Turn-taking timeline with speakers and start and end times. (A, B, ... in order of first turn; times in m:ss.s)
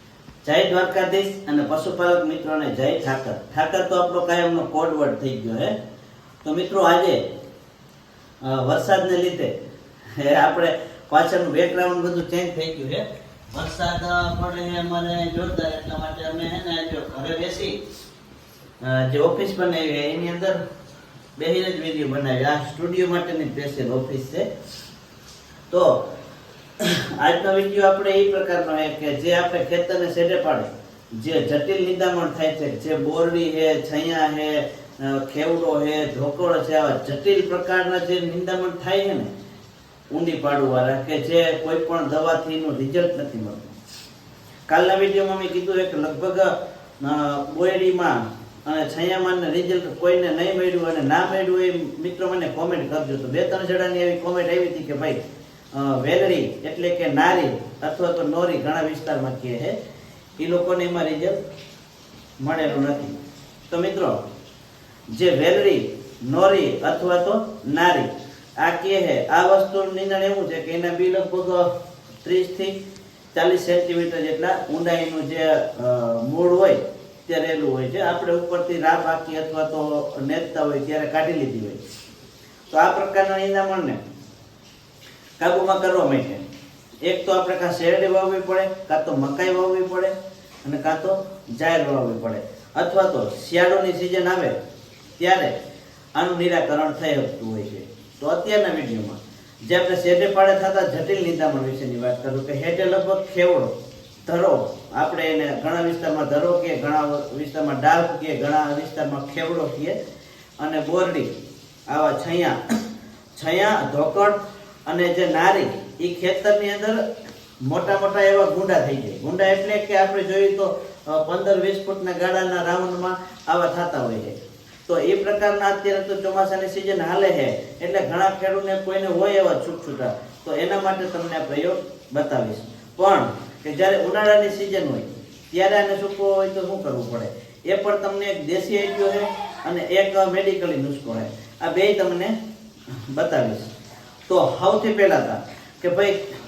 0:00.4-0:05.7 A
0:06.4-0:07.2 A
0:08.4-0:09.5 A
0:10.1-0:17.8 A
0:18.8-0:20.6 A
0:21.4-0:24.5 A
0:25.7-0:26.1 A
0:26.8-0:39.3 A
0:40.1-0:43.7 A
0:44.7-0:55.2 A
0:55.7-0:59.7 A
1:00.4-1:01.4 A
1:02.4-1:03.2 A
1:03.7-1:04.2 A
1:05.1-1:11.7 A
1:12.2-1:12.8 A
1:13.3-1:21.8 A
1:22.7-1:24.0 A
1:25.4-1:26.4 A
1:27.0-1:30.1 A
1:30.6-1:34.5 A
1:35.2-1:35.5 A
1:36.1-1:43.7 A
1:44.2-1:50.0 A
1:50.6-1:51.3 A
1:51.9-1:52.6 A
1:53.3-1:57.0 A
1:57.6-2:22.3 A
2:23.1-2:23.7 A
2:24.3-2:26.3 A